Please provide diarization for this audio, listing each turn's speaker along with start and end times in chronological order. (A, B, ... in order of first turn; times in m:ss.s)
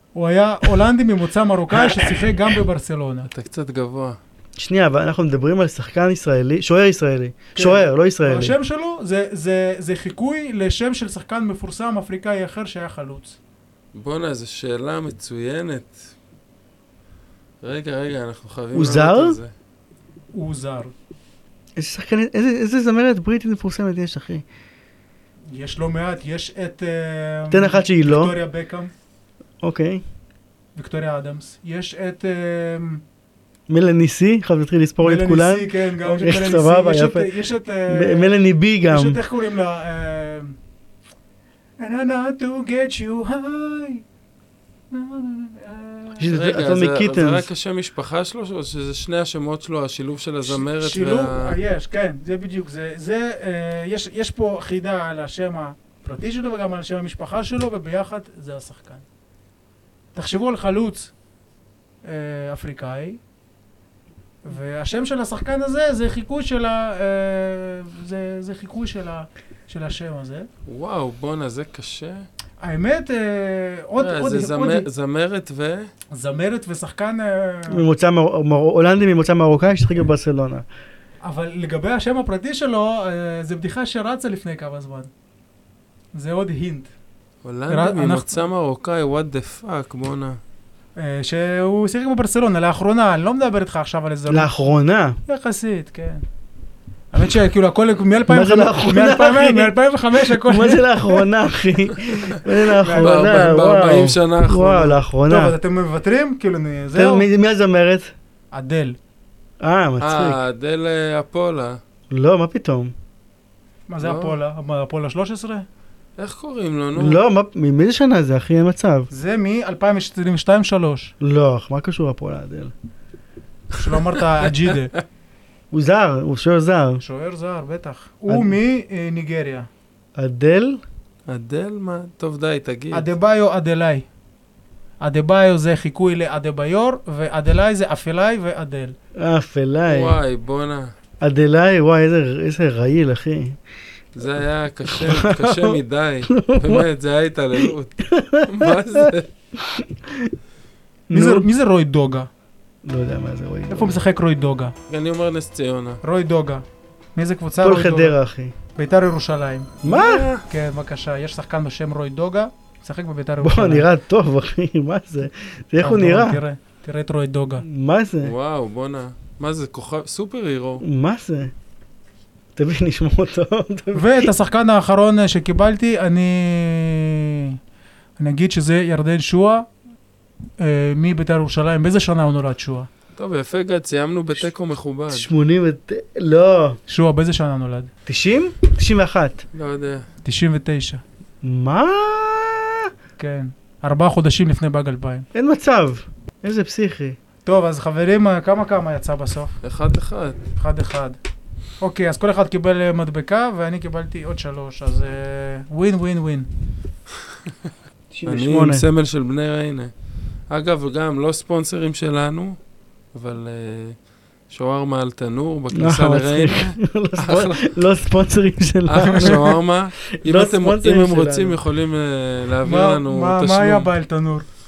0:00.1-0:03.3 A
0:01.7-0:02.3 B
0:03.3-0:04.2 C
0:04.6-0:08.6 B
0:07.5-0:13.4 A
0:13.9-0:16.0 C
0:17.6-0:19.5 C
0:18.7-0:19.4 B
0:20.3-0:20.9 A
0:21.8-0:24.4 B
0:25.5-0:28.9 A
0:27.5-0:28.3 B
0:29.6-0:30.0 B
0:30.8-0:33.0 A
0:33.7-0:37.3 B
0:35.0-0:40.6 A
0:37.9-0:39.2 B
0:41.8-0:44.0 A
0:44.9-0:46.3 A
0:46.2-0:47.5 B
0:46.2-0:51.6 C
0:50.4-0:59.0 A
1:00.1-1:01.1 A
1:02.0-1:03.2 A
1:04.4-1:10.5 A
1:10.6-1:12.2 C
1:12.6-1:14.9 A
1:14.0-1:15.9 C
1:16.1-1:17.9 A
1:17.7-1:20.6 B
1:21.2-1:25.1 A
1:26.1-1:26.9 A
1:27.4-1:30.4 C
1:27.7-1:28.4 A
1:31.0-1:34.6 A
1:34.3-1:35.2 B
1:35.3-1:36.2 A
1:37.1-1:41.3 A
1:38.3-1:45.6 B
1:42.7-1:43.2 A
1:43.0-1:45.0 C
1:45.3-1:47.3 A
1:46.9-1:48.1 B
1:48.5-1:49.0 A
1:49.6-1:50.4 B
1:50.0-1:51.8 C
1:52.1-1:52.9 B
1:53.9-1:55.6 A
1:54.0-1:54.4 C
1:56.2-1:57.2 C
1:56.9-1:59.1 B
1:59.1-2:01.1 A
2:01.2-2:02.7 B
2:03.7-2:04.9 A
2:05.7-2:07.0 B
2:07.0-2:09.7 A
2:08.3-2:08.5 B
2:10.2-2:10.8 B
2:11.3-2:13.1 C
2:12.9-2:14.0 A
2:15.0-2:18.9 A
2:19.2-2:20.2 B
2:19.9-2:20.9 C
2:21.2-2:23.6 B
2:24.2-2:29.3 C
2:24.9-2:26.8 B
2:27.6-2:30.3 B
2:31.1-2:31.4 B
2:31.1-2:32.3 A
2:32.8-2:34.0 B
2:33.7-2:34.7 A
2:34.9-2:36.0 C
2:36.0-2:36.6 A
2:37.2-2:38.2 A
2:37.6-2:38.5 B
2:38.7-2:39.8 A
2:39.8-2:40.3 B
2:39.8-2:40.4 C
2:40.5-2:43.9 A
2:43.4-2:46.4 B
2:45.8-2:47.6 A
2:47.6-2:48.3 B
2:48.2-2:50.8 C
2:50.8-2:51.5 B
2:52.5-2:54.3 B
2:53.9-2:57.6 A
2:58.2-2:59.7 A
3:00.6-3:02.9 A
3:03.2-3:05.3 C
3:05.1-3:06.8 B
3:06.9-3:07.9 A
3:08.0-3:09.4 B
3:09.5-3:10.0 C
3:10.2-3:11.0 A
3:11.4-3:12.9 B
3:13.2-3:15.2 A
3:15.3-3:17.2 B
3:17.4-3:19.6 A
3:19.6-3:20.4 C
3:20.6-3:21.2 A
3:21.8-3:26.5 A
3:28.1-3:28.8 B
3:28.2-3:29.9 C
3:30.5-3:32.6 C
3:33.1-3:34.0 C
3:34.5-3:37.6 C
3:35.7-3:39.5 B
3:38.9-3:43.9 C
3:39.1-3:39.5 A
3:40.1-3:41.6 B
3:42.6-3:44.4 A